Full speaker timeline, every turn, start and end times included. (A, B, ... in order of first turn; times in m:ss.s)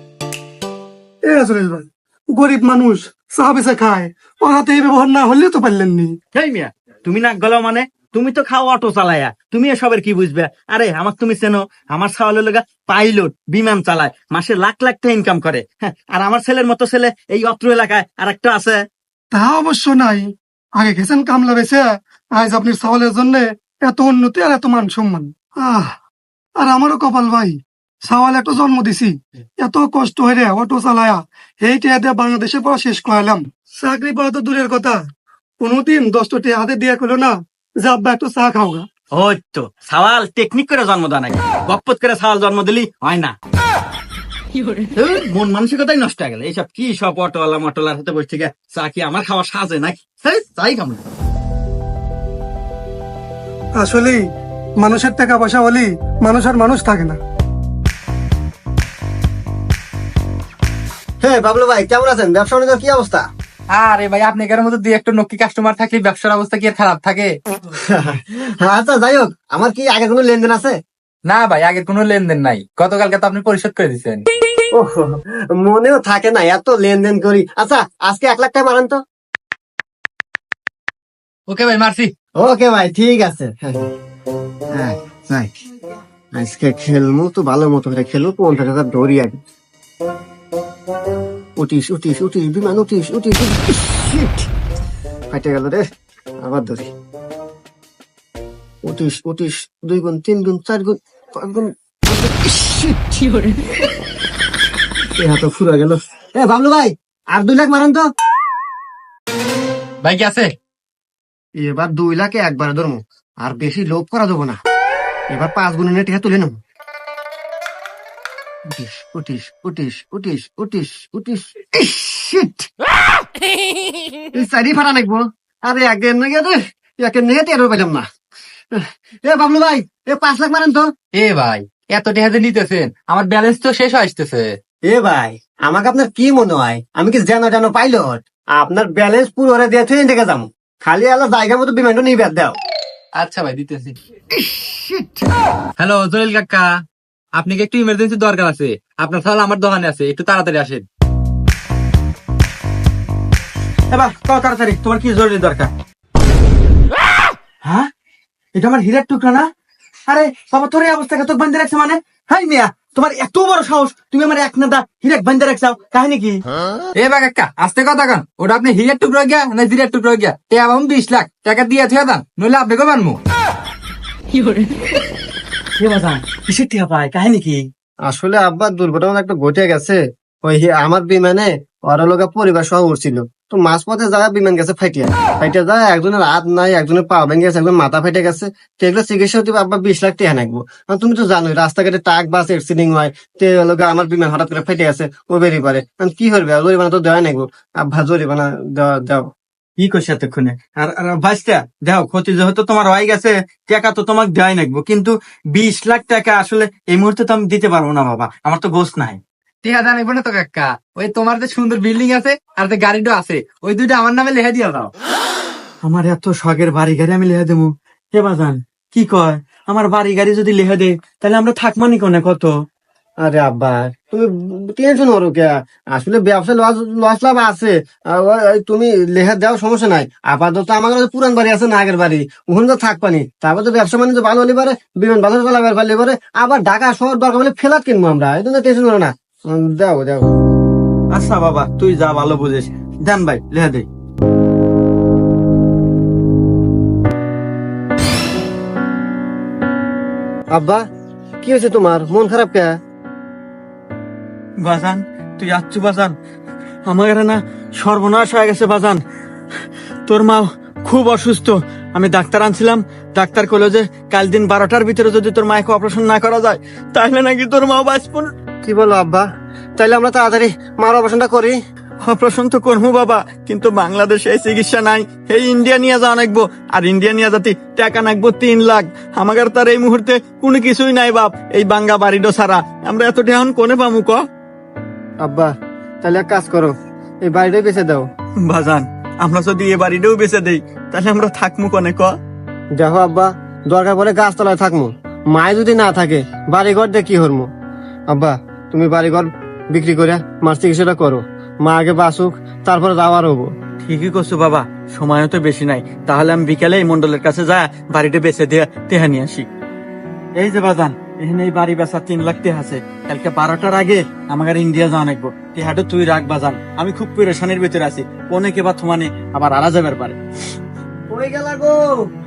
0:01.3-0:06.1 A
0:06.3-0:18.8 B
0:19.3-0:25.9 A
0:26.6-0:35.0 A
0:35.6-0:38.8 A
0:39.1-0:43.3 B
0:44.9-0:51.0 B
0:53.7-0:54.2 A
0:54.8-0:57.2 A
1:01.2-1:03.2 C
1:03.7-1:07.3 D
1:07.7-1:10.8 C
1:11.3-1:14.2 D
1:14.7-1:19.0 C
1:21.5-1:22.1 D
1:22.4-1:23.9 C
1:24.7-1:25.5 C
1:26.3-1:29.4 C
1:31.6-1:34.5 C
1:35.3-1:35.8 C
1:36.4-1:36.9 C
1:38.8-1:43.4 C
1:45.1-1:48.1 C
1:50.0-1:50.5 D
1:51.6-1:54.6 C
1:55.3-1:56.5 C
1:58.7-2:02.7 C
2:04.3-2:08.0 C
2:08.8-2:10.9 C
2:11.1-2:14.6 D
2:14.9-2:22.6 C
2:23.2-2:24.0 D
2:24.3-2:25.2 C
2:25.8-2:26.8 D
2:27.3-2:30.8 D
2:33.9-2:35.7 B
2:37.6-2:37.9 B
2:38.6-2:39.5 B
2:40.1-2:46.4 B
2:47.0-2:53.2 D
2:55.8-2:57.6 B
2:58.1-3:19.3 C
3:19.8-3:29.2 B
3:29.6-3:34.9 D
3:35.8-3:42.5 B
3:43.2-4:00.3 C
4:01.1-4:03.8 B
4:10.5-4:10.8 C
4:11.4-4:12.7 C
4:14.6-4:16.1 B
4:16.9-4:19.0 B
4:20.1-4:28.3 B
4:28.6-4:29.2 C
4:29.8-4:31.6 C
4:32.0-4:44.2 B
4:45.2-4:45.5 C
4:46.0-4:46.7 C
4:47.2-4:48.1 C
4:48.5-4:52.1 B
4:52.8-4:57.5 C
4:58.1-5:03.5 C
5:03.8-5:09.5 B
5:10.4-5:20.2 B
5:21.1-5:22.0 C